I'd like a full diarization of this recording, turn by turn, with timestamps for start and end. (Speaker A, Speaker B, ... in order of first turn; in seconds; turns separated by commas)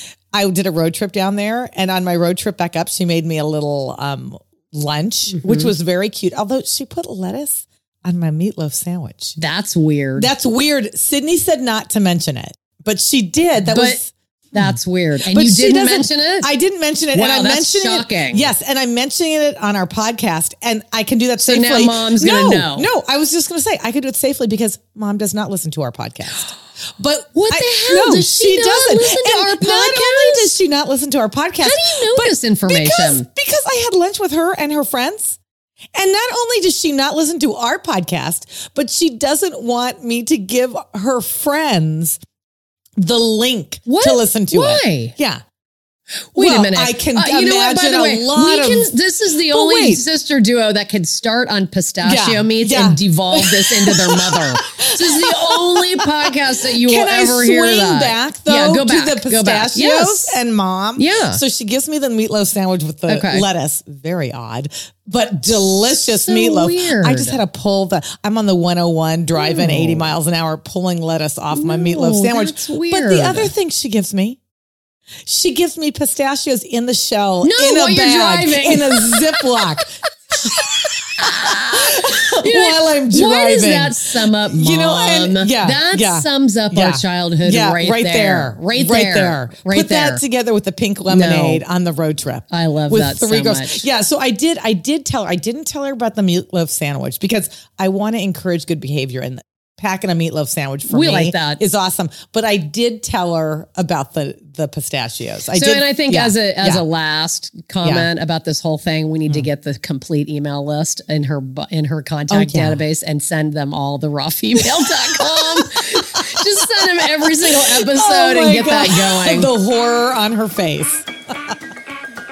Speaker A: 0.3-9.4, Speaker B: 5.3-5.7, Speaker B: 9.4-10.3, Speaker A: 10.2-35.4, Speaker B: 13.6-14.0, Speaker B: 14.5-16.5, Speaker B: 17.1-18.5, Speaker B: 21.4-22.9, Speaker B: 27.3-30.6, Speaker B: 31.6-33.2, Speaker A: 36.0-42.2, Speaker A: 43.0-45.4, Speaker B: 43.9-45.1, Speaker B: 46.4-60.4, Speaker A: 46.4-50.0, Speaker A: 52.0-74.4, Speaker B: 61.0-61.4, Speaker B: 63.1-63.5, Speaker B: 65.8-67.4, Speaker B: 69.3-70.1, Speaker B: 71.5-73.5, Speaker A: 75.3-79.9, Speaker B: 77.4-79.8, Speaker A: 80.4-106.8, Speaker B: 81.2-90.2, Speaker B: 91.1-91.6, Speaker B: 92.5-93.9, Speaker B: 100.9-101.6, Speaker B: 105.5-119.5, Speaker A: 107.8-108.1, Speaker A: 112.3-112.8, Speaker A: 117.5-121.1